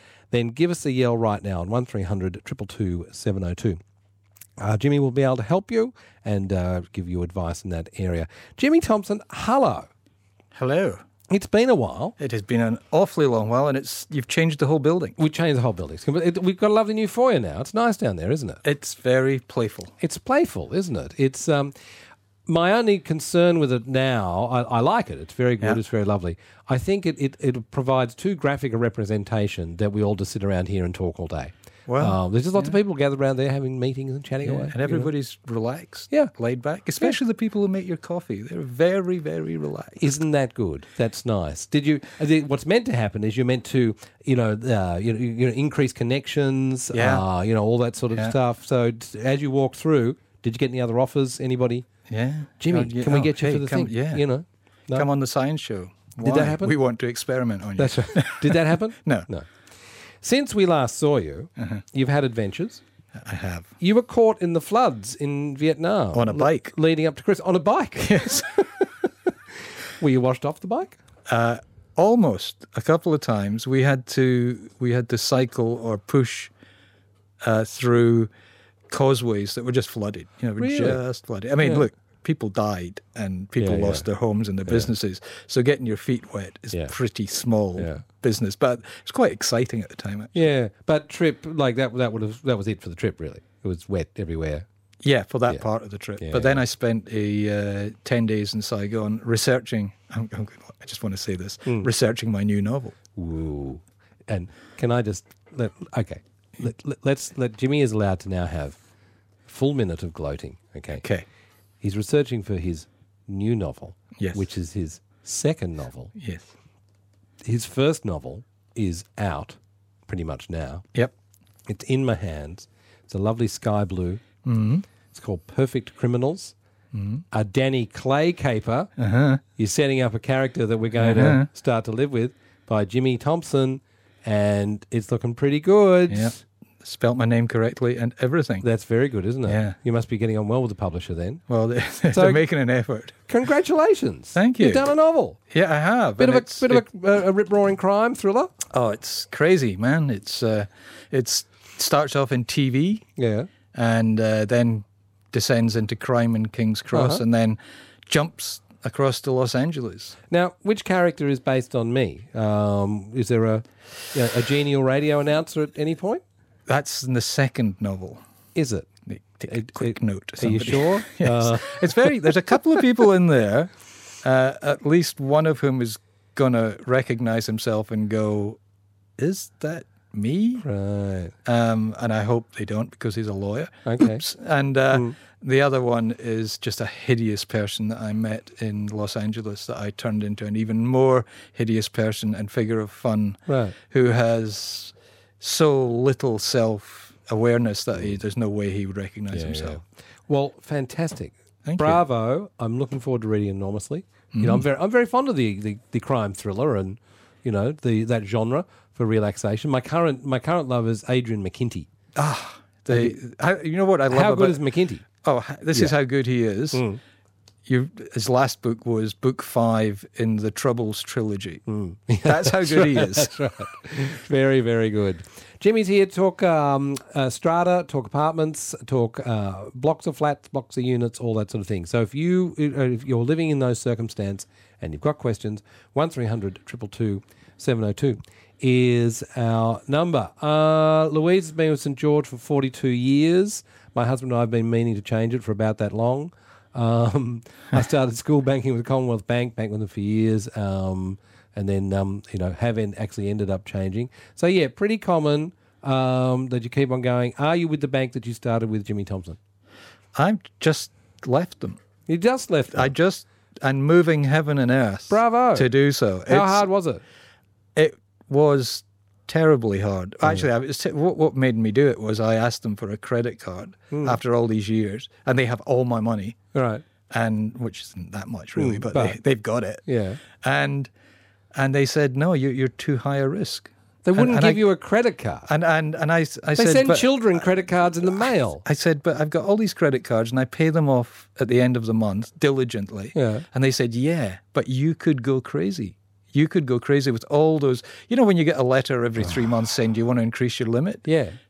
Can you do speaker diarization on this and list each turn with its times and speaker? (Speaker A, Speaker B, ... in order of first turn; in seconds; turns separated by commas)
Speaker A: 0.3-3.8, Speaker A: 4.6-9.9, Speaker B: 10.5-11.0, Speaker A: 11.3-12.2, Speaker B: 12.2-15.2, Speaker A: 15.2-18.6, Speaker B: 18.6-19.9, Speaker A: 20.0-21.7, Speaker A: 22.5-35.1, Speaker B: 31.9-32.8, Speaker B: 34.4-40.1, Speaker A: 40.0-51.9, Speaker B: 46.9-47.2, Speaker B: 52.1-54.2, Speaker A: 52.6-55.1, Speaker B: 54.9-59.3, Speaker A: 56.2-56.7, Speaker A: 57.8-59.5, Speaker A: 60.2-62.8, Speaker B: 63.2-63.7, Speaker A: 63.8-68.9, Speaker B: 66.1-66.7, Speaker B: 68.0-68.5, Speaker A: 70.0-71.0, Speaker B: 71.3-76.5, Speaker B: 77.4-78.3, Speaker B: 78.9-90.5, Speaker A: 80.6-81.0, Speaker A: 83.6-84.1, Speaker A: 87.8-88.0, Speaker A: 90.3-94.7, Speaker B: 95.0-103.0, Speaker A: 96.2-96.6, Speaker A: 103.2-108.8, Speaker A: 109.5-111.0, Speaker A: 111.8-116.1, Speaker B: 114.2-114.4, Speaker B: 116.2-116.5, Speaker A: 117.4-120.8, Speaker A: 121.7-124.2, Speaker B: 124.4-124.8, Speaker A: 125.1-126.5, Speaker B: 126.9-127.2, Speaker A: 127.3-128.9, Speaker B: 129.0-129.4, Speaker A: 129.6-136.3, Speaker B: 131.0-131.5, Speaker B: 136.1-138.7, Speaker A: 138.6-141.4, Speaker B: 139.5-139.8, Speaker B: 141.5-143.3, Speaker A: 142.1-142.4, Speaker A: 143.3-145.4, Speaker B: 144.3-144.9, Speaker B: 145.5-146.8, Speaker A: 146.2-148.5, Speaker B: 148.7-153.1, Speaker A: 153.2-153.5, Speaker B: 153.7-160.2, Speaker A: 156.9-157.2, Speaker A: 160.3-166.2, Speaker B: 166.7-168.2, Speaker A: 168.6-168.9, Speaker B: 169.1-173.7, Speaker A: 169.5-172.3, Speaker B: 174.2-178.6, Speaker B: 179.2-180.7, Speaker A: 180.6-181.3, Speaker B: 181.4-199.8, Speaker A: 183.9-184.2, Speaker A: 193.5-193.8, Speaker A: 199.3-211.9, Speaker B: 201.7-202.0, Speaker B: 204.3-204.7, Speaker B: 212.2-214.6, Speaker A: 214.1-215.1, Speaker B: 215.2-216.8, Speaker A: 216.7-217.0, Speaker B: 217.7-221.6, Speaker A: 221.7-259.4, Speaker B: 222.2-223.3, Speaker B: 260.1-261.8, Speaker A: 262.1-262.9, Speaker B: 262.7-266.7, Speaker A: 265.1-265.7, Speaker A: 266.3-267.0, Speaker B: 267.8-276.4, Speaker A: 273.9-274.2, Speaker A: 276.5-276.8, Speaker B: 277.1-279.8, Speaker A: 278.6-279.2, Speaker A: 279.9-280.2, Speaker B: 280.4-280.9, Speaker B: 281.5-284.6, Speaker A: 284.0-285.5, Speaker B: 285.5-287.5, Speaker A: 286.6-288.6, Speaker B: 288.6-301.1, Speaker A: 293.1-293.4, Speaker A: 301.1-301.4